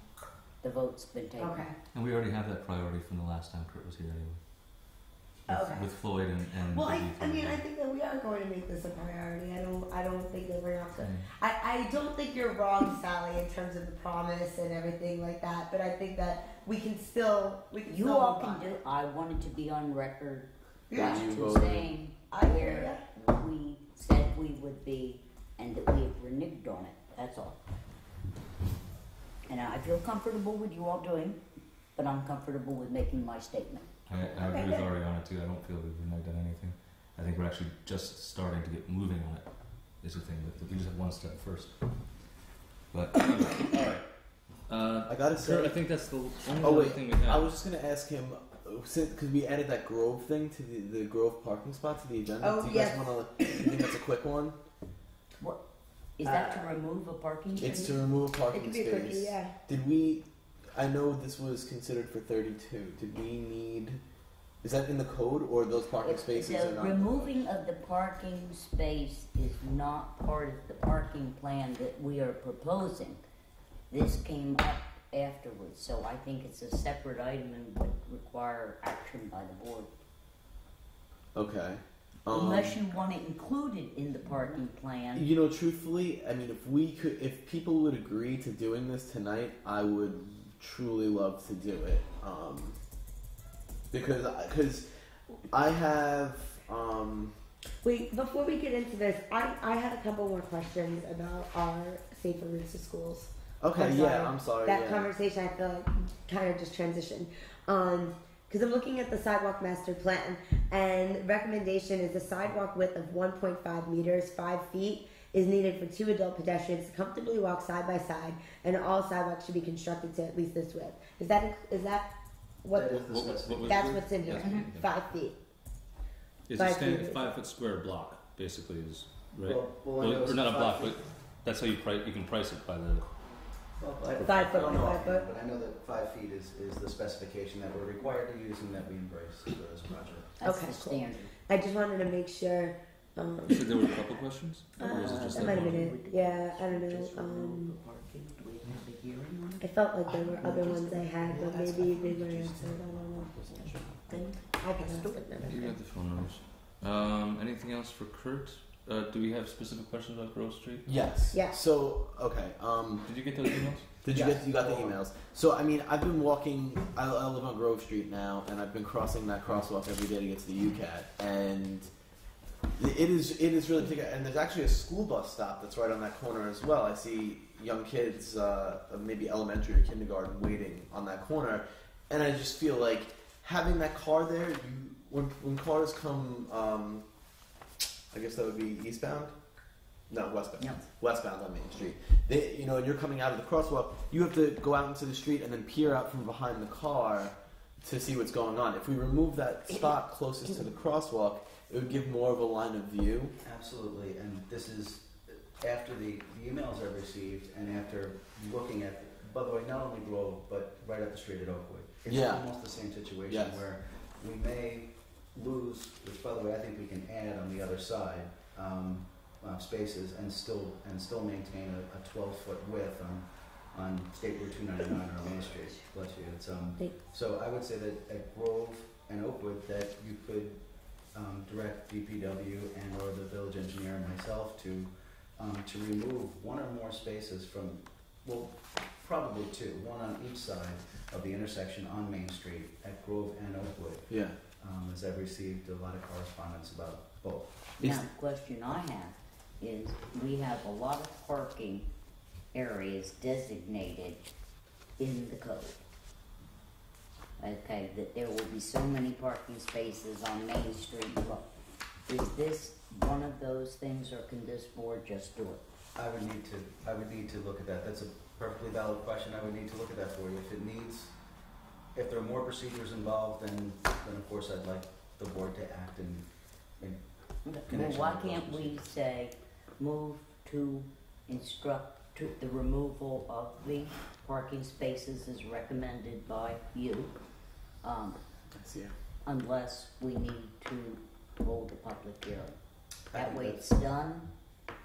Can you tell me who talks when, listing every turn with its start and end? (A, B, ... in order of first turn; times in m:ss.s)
0:00.6-0:01.6 A
0:01.4-0:01.7 B
0:01.9-0:04.4 C
0:05.5-0:05.9 B
0:05.5-0:07.6 C
0:06.7-0:18.7 B
0:11.0-0:11.2 C
0:17.8-0:27.6 A
0:20.9-0:21.4 B
0:20.9-0:21.9 D
0:22.3-0:23.0 B
0:29.5-0:31.4 A
0:32.0-0:33.9 A
0:34.0-0:41.7 C
0:34.3-0:34.8 B
0:42.9-0:44.0 C
0:44.7-0:47.5 C
0:45.1-0:45.8 D
0:46.5-0:54.6 D
0:52.4-0:53.8 B
0:56.2-0:57.9 A
0:56.2-0:56.6 B
0:57.6-1:04.0 D
0:57.6-0:57.9 B
0:58.5-0:59.5 B
1:04.6-1:07.3 D
1:06.0-1:13.2 A
1:13.9-1:19.9 A
1:21.3-1:22.8 D
1:22.3-1:25.2 A
1:25.1-1:32.8 D
1:33.9-1:34.8 D
1:35.5-1:37.3 D
1:37.8-2:02.1 B
1:43.6-1:45.1 D
2:02.6-2:03.1 B
2:02.7-2:04.1 E
2:03.1-2:04.8 C
2:03.6-2:05.4 B
2:04.3-2:04.6 A
2:06.5-2:13.1 C
2:06.5-2:07.4 B
2:09.4-2:11.0 E
2:13.8-2:20.3 E
2:14.2-2:14.5 C
2:14.2-2:15.3 B
2:20.4-2:21.3 A
2:20.4-2:23.8 B
2:23.5-2:25.8 C
2:24.8-2:27.8 B
2:24.8-2:29.6 A
2:29.6-2:33.3 B
2:30.1-2:32.8 D
2:33.3-2:34.0 D
2:34.1-2:35.1 A
2:34.5-2:35.8 B
2:35.4-2:40.9 C
2:40.8-2:43.1 D
2:41.3-2:41.6 B
2:43.0-2:44.0 C
2:44.0-2:51.9 D
2:52.8-3:07.0 D
3:08.1-3:09.3 D
3:10.1-3:23.3 D
3:10.6-3:10.8 A
3:23.4-3:50.6 E
3:32.1-3:32.5 D
3:33.3-3:33.6 D
3:51.1-4:07.7 E
4:04.1-4:04.4 D
4:07.8-4:08.0 D
4:07.8-4:11.9 A
4:12.5-4:14.3 A
4:15.0-4:15.8 A
4:17.4-4:21.4 A
4:22.1-4:25.6 A
4:26.0-4:31.1 E
4:31.9-4:36.3 E
4:37.4-4:47.1 A
4:37.7-4:38.8 E
4:47.8-4:48.2 A
4:48.5-4:48.9 D
4:49.2-4:52.6 A
4:53.1-4:53.6 E
4:53.1-4:54.3 A